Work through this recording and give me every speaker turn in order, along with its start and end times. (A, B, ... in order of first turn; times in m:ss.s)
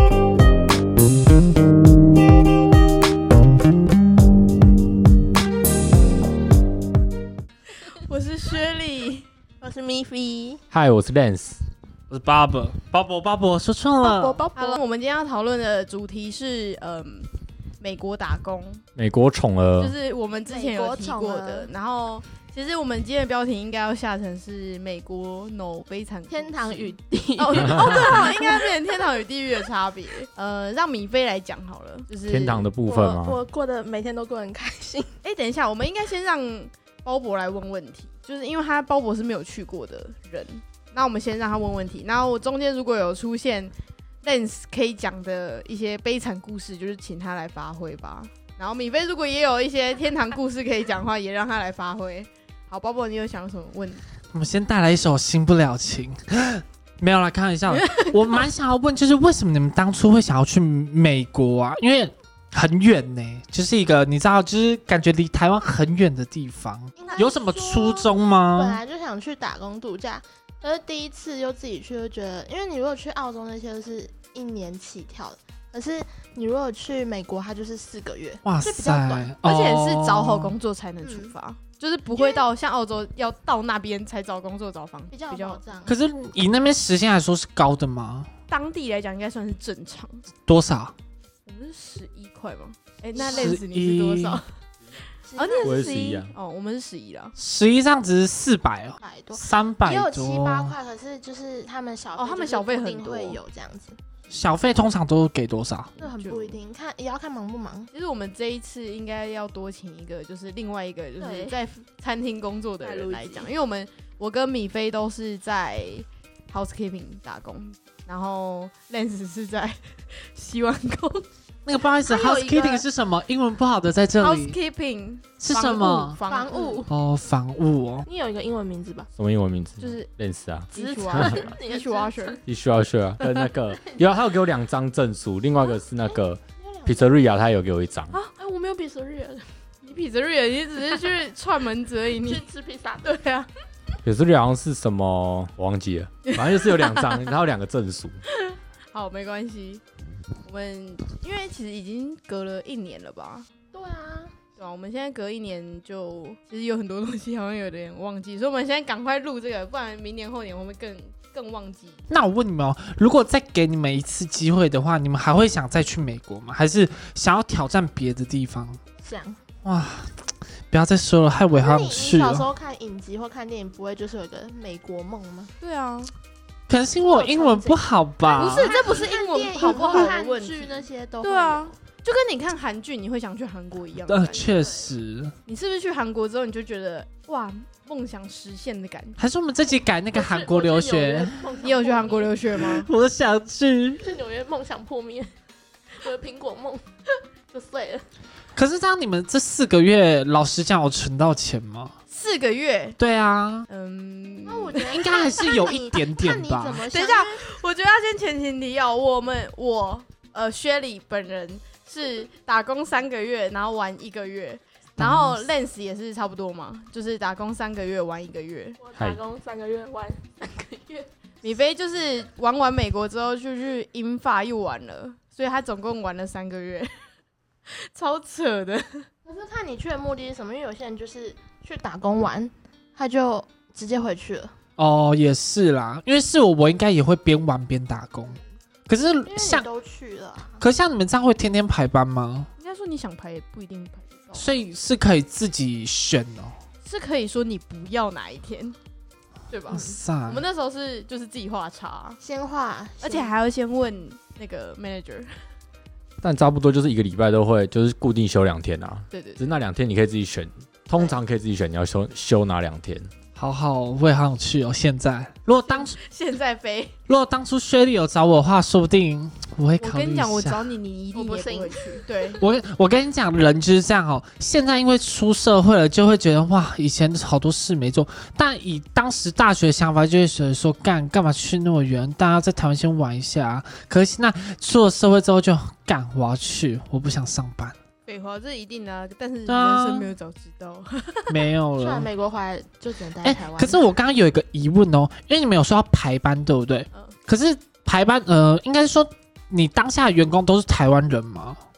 0:07.8-0:09.3 A
0:09.6-0:10.6 B
0:10.7-0:11.6 C
0:12.1-0:14.4 D
0:14.0-0:14.8 B
0:14.6-0:18.8 A
0:19.0-0:19.9 C
0:19.8-0:32.7 A
0:20.5-0:21.7 B
0:26.3-0:28.7 B
0:27.6-0:28.1 C
0:32.2-0:33.4 C
0:32.8-0:35.1 B
0:35.2-0:54.0 A
0:54.3-1:08.8 D
0:57.7-0:58.4 A
1:07.0-1:19.3 B
1:18.4-1:20.5 D
1:19.4-1:25.6 A
1:21.0-1:21.3 B
1:22.1-1:22.5 B
1:25.1-1:26.0 B
1:25.8-1:28.3 D
1:28.5-1:30.2 A
1:30.5-1:30.9 D
1:31.5-1:34.4 A
1:33.1-1:33.6 B
1:33.2-1:34.4 D
1:35.2-1:36.2 B
1:35.4-1:37.3 A
1:35.6-1:36.3 C
1:37.4-1:40.8 D
1:39.0-1:44.0 B
1:42.2-1:43.4 A
1:44.3-1:46.0 D
1:46.0-1:47.9 B
1:46.0-1:46.6 A
1:47.9-2:01.3 A
1:51.2-1:51.6 B
1:52.8-1:53.5 B
2:01.6-2:04.6 D
2:01.8-2:02.9 B
2:04.2-2:06.8 A
2:05.4-2:06.2 D
2:06.2-2:06.9 B
2:06.9-2:08.1 D
2:08.0-2:09.1 B
2:09.2-2:11.4 C
2:09.8-2:10.1 A
2:10.7-2:12.4 A
2:10.7-2:12.4 B
2:12.4-2:18.1 C
2:15.6-2:17.1 B
2:18.4-2:19.5 B
2:19.8-2:22.4 A
2:22.2-2:23.1 B
2:23.0-2:23.5 A
2:24.0-2:28.2 C
2:26.3-2:27.3 A
2:28.3-2:29.8 A
2:30.4-2:33.5 A
2:33.7-2:34.3 B
2:34.6-2:42.0 A
2:42.1-2:48.8 D
2:49.0-2:49.4 B
2:49.6-2:52.5 D
2:51.5-2:55.5 B
2:55.6-2:56.1 A
2:56.7-2:58.7 D
2:57.0-3:01.7 B
2:58.4-3:04.5 A
2:59.7-3:00.1 D
3:04.1-3:05.3 D
3:04.3-3:04.9 B
3:05.5-3:09.2 A
3:09.2-3:11.4 D
3:10.1-3:12.4 B
3:11.6-3:12.9 A
3:12.5-3:14.1 D
3:14.0-3:15.3 B
3:15.9-3:16.8 B
3:17.5-3:18.0 B
3:18.6-3:21.9 D
3:22.1-3:23.0 A
3:23.0-3:23.7 D
3:23.7-3:25.5 A
3:24.4-3:27.4 B
3:24.8-3:26.8 D
3:26.9-3:38.8 A
3:35.0-3:35.4 D
3:38.8-3:41.1 B
3:41.4-3:46.9 A
3:47.7-3:49.1 A
3:49.2-3:54.5 B
3:54.8-3:59.7 D
3:59.2-4:00.6 B
4:00.6-4:02.5 D
4:02.6-4:04.5 A
4:04.4-4:06.5 D
4:06.8-4:08.8 A
4:09.5-4:12.2 A
4:09.7-4:10.4 D
4:09.7-4:10.0 B
4:12.2-4:13.3 B
4:13.0-4:15.3 A
4:16.2-4:23.1 C
4:19.1-4:19.4 A
4:23.4-4:26.0 D
4:25.7-4:26.9 A
4:27.1-4:30.7 D
4:29.8-4:32.4 A
4:31.1-4:32.4 B
4:32.4-4:47.7 D
4:48.1-4:51.3 A
4:49.5-4:50.1 D
4:51.3-4:52.1 D
4:51.8-4:53.9 B
4:53.2-5:01.6 D